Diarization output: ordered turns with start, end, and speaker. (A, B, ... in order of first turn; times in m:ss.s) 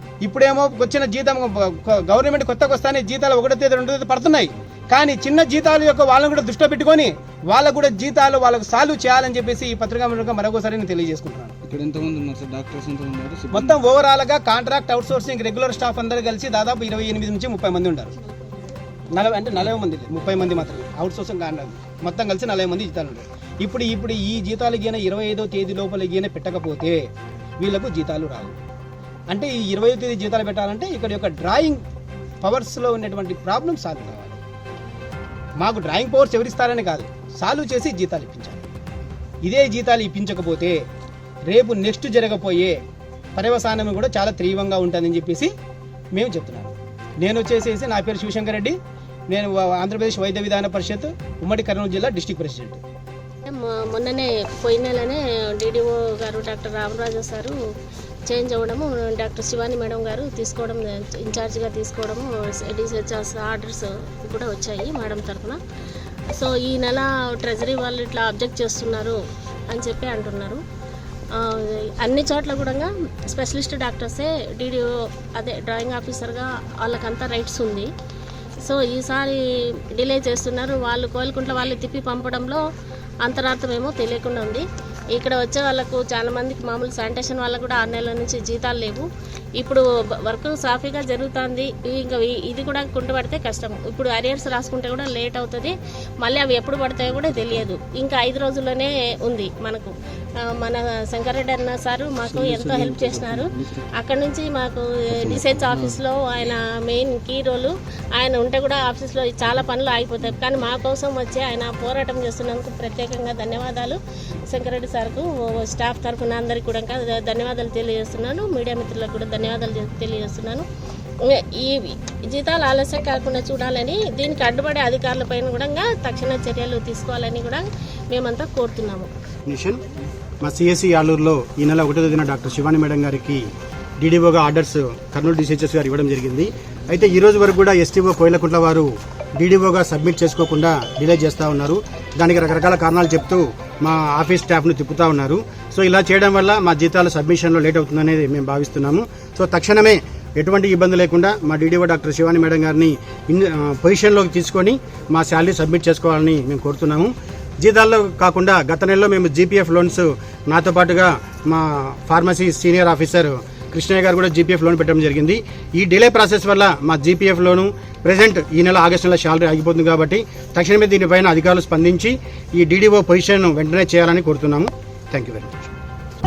0:00.2-0:11.5 A
0:11.6-0:13.8 B
0:13.5-0:18.1 A
0:19.1-0:27.1 A
0:27.6-0:28.5 A
0:29.3-0:31.8 A
0:32.4-0:34.4 A
0:35.6-0:38.6 A
0:39.4-0:40.8 A
0:41.5-0:42.8 A
0:43.4-0:45.5 A
0:46.1-0:48.8 A
0:49.3-0:52.8 A
0:53.5-0:57.6 C
0:58.3-1:05.6 C
1:06.4-1:09.2 C
1:09.7-1:10.6 C
1:11.4-1:17.9 C
1:18.6-1:19.4 C
1:20.0-1:22.6 C
1:23.2-1:24.6 C
1:25.2-1:29.0 C
1:29.6-1:39.9 C
1:40.6-2:00.6 C
1:42.4-1:42.7 B
1:45.2-1:45.5 B
2:01.3-2:09.1 C
2:09.5-2:09.8 D
2:10.4-2:13.4 D
2:14.0-2:55.7 D